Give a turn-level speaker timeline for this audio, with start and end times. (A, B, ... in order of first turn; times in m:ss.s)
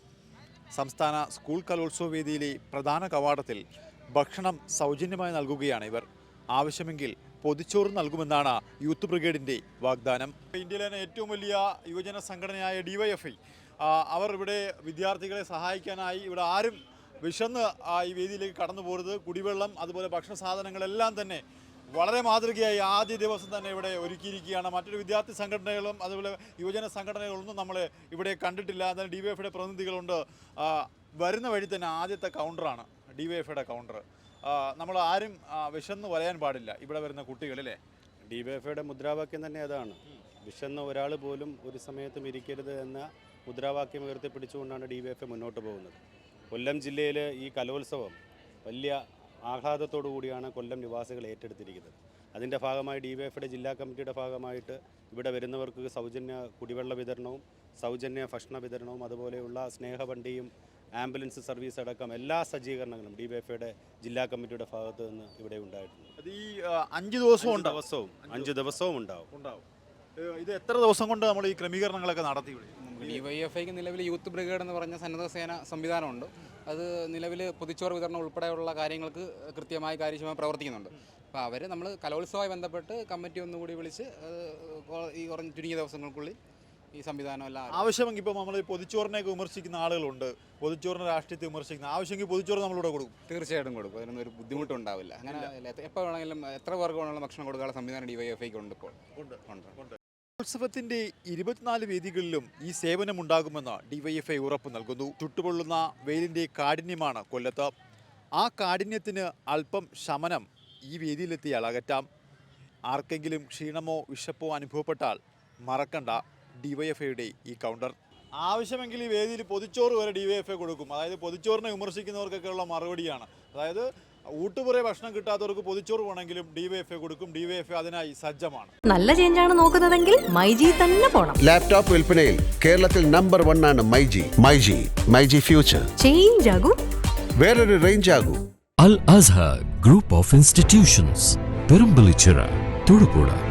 0:00.8-0:03.6 A
0:04.2-0:21.4 A
0:22.0-0:37.8 A
0:38.3-0:46.0 B
0:46.5-1:06.1 B
1:06.2-1:08.5 A
1:07.4-1:09.3 B
1:09.3-1:09.6 A
1:10.2-1:13.2 A
1:12.8-1:26.4 C
1:26.9-1:27.9 C
1:27.7-1:33.1 A
1:33.3-1:39.0 C
1:39.5-1:39.8 C
1:40.4-1:47.7 A
1:48.4-1:52.1 A
1:52.9-2:03.9 A
2:04.4-2:08.7 A
2:08.9-2:11.4 D
2:11.4-2:15.9 E
2:16.0-2:16.8 D
2:17.4-2:18.4 E
2:18.8-2:23.4 F